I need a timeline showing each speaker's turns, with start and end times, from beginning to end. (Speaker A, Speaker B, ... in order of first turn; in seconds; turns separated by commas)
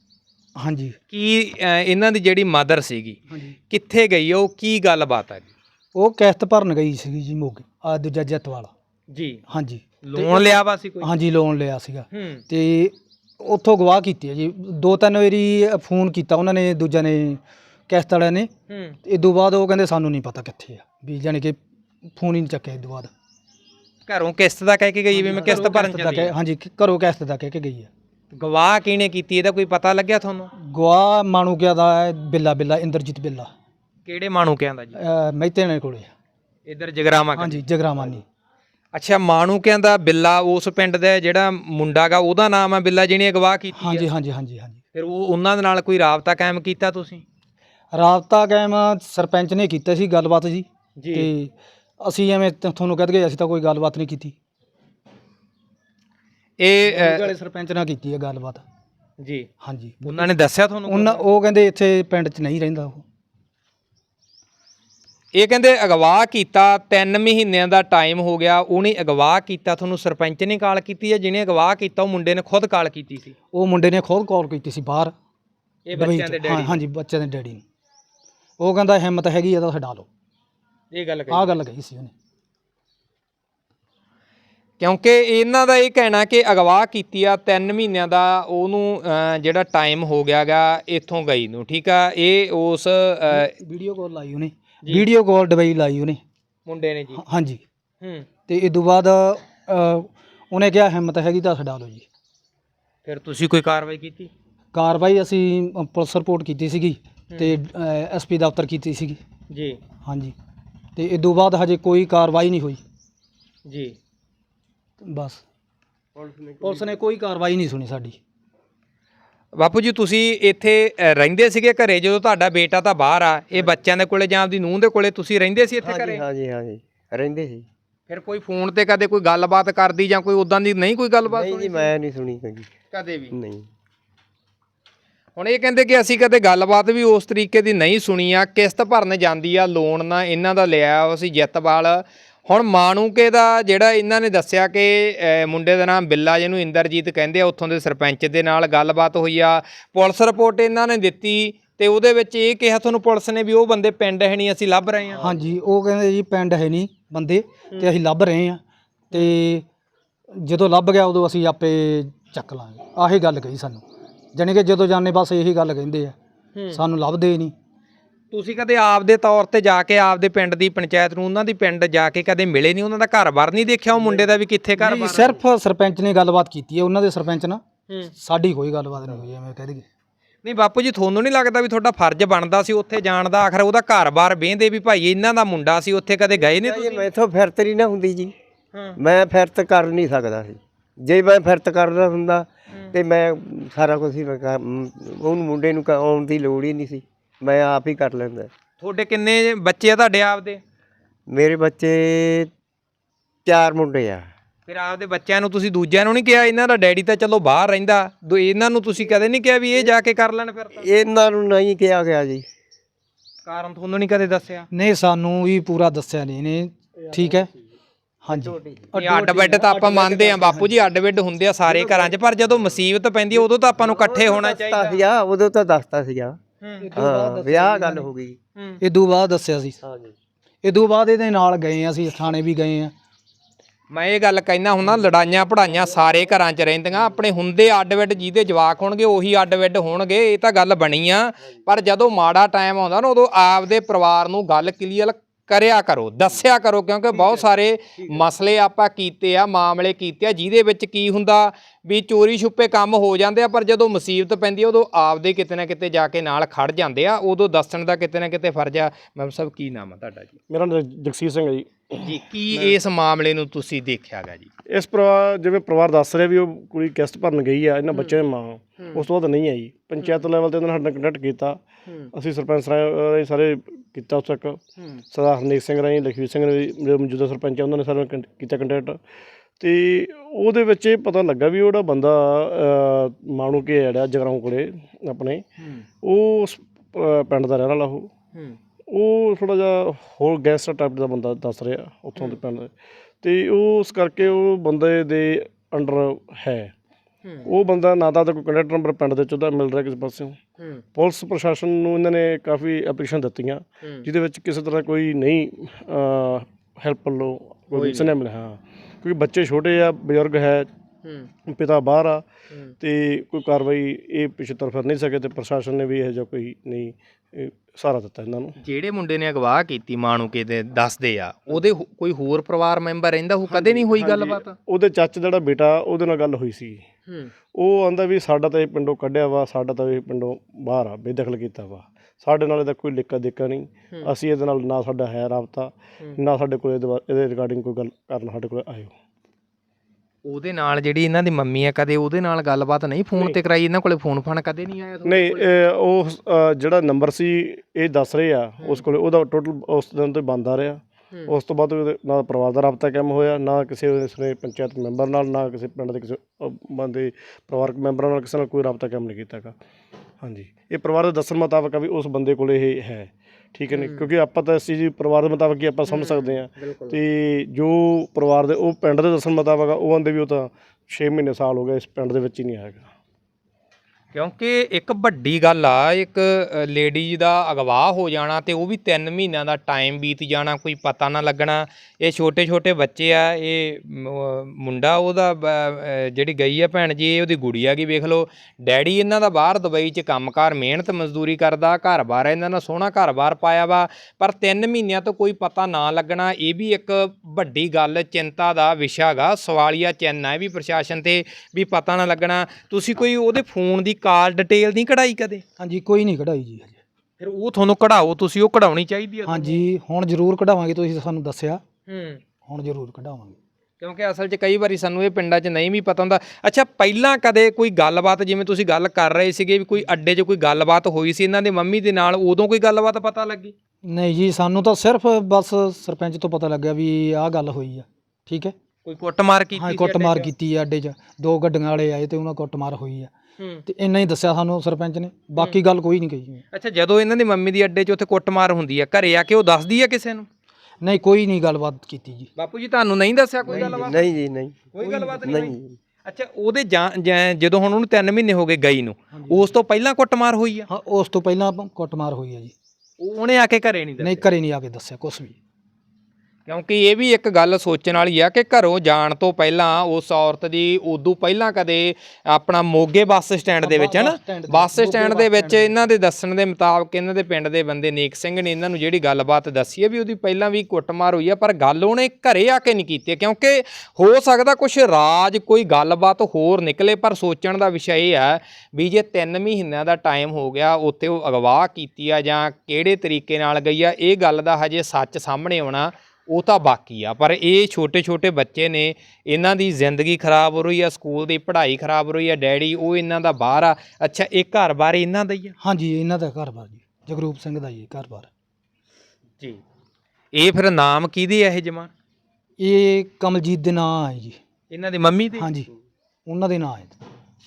Speaker A: 0.6-1.0, Speaker B: 1.1-3.2, Speaker A: 3.3-3.6, Speaker B: 3.7-5.5, Speaker A: 6.0-8.7, Speaker B: 9.1-9.4, Speaker A: 9.5-18.5, Speaker B: 10.0-11.1, Speaker B: 12.1-12.4, Speaker B: 18.7-19.0, Speaker A: 19.1-21.6, Speaker A: 22.2-23.1, Speaker B: 24.1-26.3, Speaker A: 25.1-27.9, Speaker B: 28.3-30.5, Speaker A: 30.6-33.5, Speaker B: 34.1-35.0, Speaker A: 35.0-36.1, Speaker B: 36.7-37.6, Speaker A: 37.4-38.2, Speaker B: 38.9-44.1, Speaker A: 43.8-44.8, Speaker B: 44.9-47.2, Speaker A: 47.9-54.4, Speaker B: 51.0-51.3, Speaker B: 56.6-57.3, Speaker A: 56.8-58.6, Speaker B: 59.2-59.5, Speaker A: 59.6-60.3, Speaker B: 60.0-61.2, Speaker A: 60.9-63.0, Speaker B: 65.3-73.3, Speaker A: 73.5-75.1, Speaker B: 75.9-76.8, Speaker A: 75.9-77.6, Speaker A: 78.6-80.1, Speaker B: 80.9-81.6, Speaker A: 81.3-82.1, Speaker B: 84.8-93.5, Speaker A: 93.3-96.2, Speaker B: 96.7-97.2, Speaker A: 97.1-97.6, Speaker B: 98.0-98.3, Speaker A: 98.5-102.1, Speaker B: 103.0-104.3, Speaker A: 104.7-109.2, Speaker B: 109.5-109.8, Speaker A: 110.0-110.3, Speaker A: 111.0-112.8, Speaker B: 113.7-114.0, Speaker A: 115.0-115.4, Speaker C: 116.2-116.9, Speaker A: 116.6-118.2, Speaker B: 119.5-126.2, Speaker C: 125.8-127.7, Speaker B: 128.1-131.9, Speaker C: 131.2-132.7, Speaker B: 132.9-133.3, Speaker C: 133.3-133.7, Speaker B: 135.4-155.3, Speaker A: 155.2-159.7, Speaker A: 160.4-166.2, Speaker B: 166.6-166.8, Speaker A: 166.7-167.5, Speaker B: 168.3-175.4, Speaker A: 174.8-179.8, Speaker B: 180.4-187.1, Speaker C: 186.5-188.3, Speaker B: 188.7-189.0, Speaker C: 189.0-198.5, Speaker B: 192.7-193.0, Speaker B: 198.8-200.6, Speaker C: 201.3-202.5, Speaker C: 203.5-204.3, Speaker B: 204.7-210.9, Speaker C: 210.7-212.5, Speaker B: 213.4-214.7, Speaker A: 214.7-217.5, Speaker C: 217.1-217.5, Speaker A: 218.2-220.8, Speaker C: 218.3-218.9, Speaker B: 218.9-225.0, Speaker C: 221.7-222.1, Speaker C: 223.4-226.4, Speaker B: 226.6-226.9, Speaker A: 226.8-228.1, Speaker C: 226.9-228.4, Speaker B: 228.6-228.8, Speaker A: 228.8-229.8, Speaker C: 229.8-230.2, Speaker A: 230.6-232.9, Speaker B: 233.9-260.4, Speaker D: 260.5-262.8, Speaker B: 262.0-264.5, Speaker D: 264.7-271.6, Speaker B: 267.9-268.2, Speaker B: 268.8-269.1, Speaker B: 271.9-272.1, Speaker D: 272.1-279.0, Speaker B: 274.8-275.0, Speaker D: 279.6-285.4, Speaker B: 285.6-285.9, Speaker D: 286.0-288.1, Speaker D: 288.9-296.7, Speaker B: 297.2-297.5, Speaker D: 297.4-300.4, Speaker B: 300.6-300.8, Speaker D: 300.9-310.7, Speaker B: 303.8-304.1, Speaker B: 307.7-308.2, Speaker B: 311.0-311.3, Speaker D: 311.5-312.2, Speaker D: 312.8-318.6, Speaker B: 318.6-324.6, Speaker D: 323.5-326.8, Speaker B: 327.1-327.3, Speaker D: 327.6-338.9, Speaker B: 340.2-345.6, Speaker D: 345.0-359.6, Speaker D: 360.2-372.9, Speaker B: 363.7-364.1, Speaker B: 365.9-367.0, Speaker B: 374.1-405.4, Speaker A: 405.6-406.8, Speaker B: 407.2-409.6, Speaker A: 409.2-411.6, Speaker B: 411.9-412.2, Speaker A: 412.5-413.4, Speaker B: 413.8-423.5, Speaker A: 423.9-428.5, Speaker B: 428.9-430.3, Speaker A: 429.6-433.1, Speaker B: 433.4-433.6, Speaker A: 433.6-436.4, Speaker B: 436.5-440.3, Speaker A: 440.8-442.3, Speaker B: 442.4-444.1, Speaker C: 443.5-445.8, Speaker A: 443.5-443.8, Speaker B: 444.7-450.7, Speaker A: 444.8-445.3, Speaker A: 449.1-449.5, Speaker A: 450.7-452.5, Speaker B: 453.0-454.3, Speaker A: 454.0-455.4, Speaker B: 456.5-495.6, Speaker A: 463.6-465.8, Speaker A: 495.6-498.3, Speaker B: 500.3-501.9, Speaker A: 502.6-504.4, Speaker B: 504.7-505.5, Speaker A: 505.4-505.7, Speaker A: 506.3-507.0